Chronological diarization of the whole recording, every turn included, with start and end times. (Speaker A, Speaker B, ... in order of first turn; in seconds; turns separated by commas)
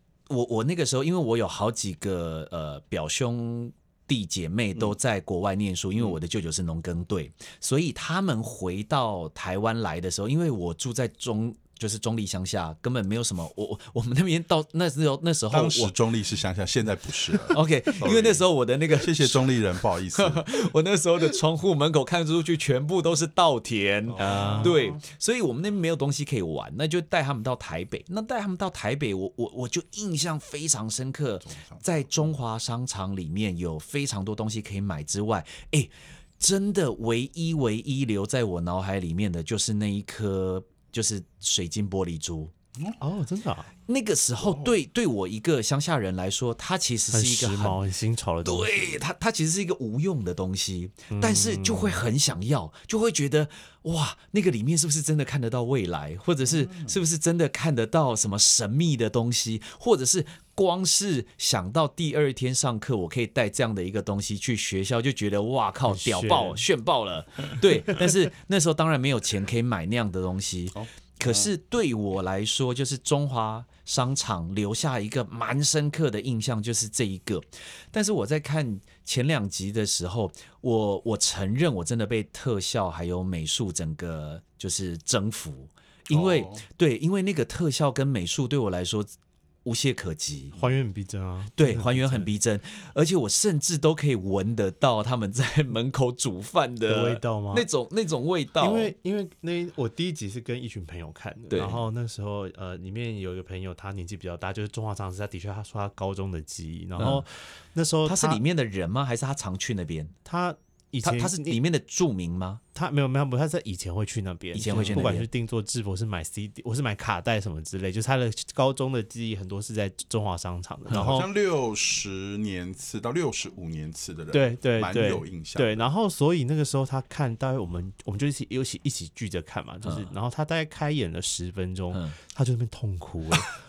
Speaker A: 0.3-15.9, Speaker B: 15.5-20.6, Speaker A: 17.5-19.6, Speaker A: 20.1-42.5, Speaker B: 24.1-25.0, Speaker C: 24.2-24.8, Speaker B: 31.4-31.8, Speaker C: 43.0-43.7, Speaker A: 43.9-47.8, Speaker B: 44.4-44.8, Speaker C: 47.1-49.0, Speaker A: 48.4-89.1, Speaker C: 51.1-52.0, Speaker B: 56.4-57.0, Speaker C: 65.9-66.6, Speaker B: 70.7-71.5, Speaker B: 86.1-86.6, Speaker A: 89.6-90.6, Speaker C: 90.5-92.3, Speaker A: 91.6-98.9, Speaker C: 96.9-97.7, Speaker C: 98.6-108.4, Speaker A: 101.5-101.8, Speaker A: 107.0-107.2, Speaker A: 108.0-110.1, Speaker C: 110.2-111.6, Speaker A: 111.0-112.6, Speaker C: 112.7-121.3, Speaker A: 114.5-115.3, Speaker B: 114.7-115.0, Speaker A: 120.9-121.2, Speaker B: 120.9-125.9, Speaker C: 124.3-133.5, Speaker A: 129.8-130.1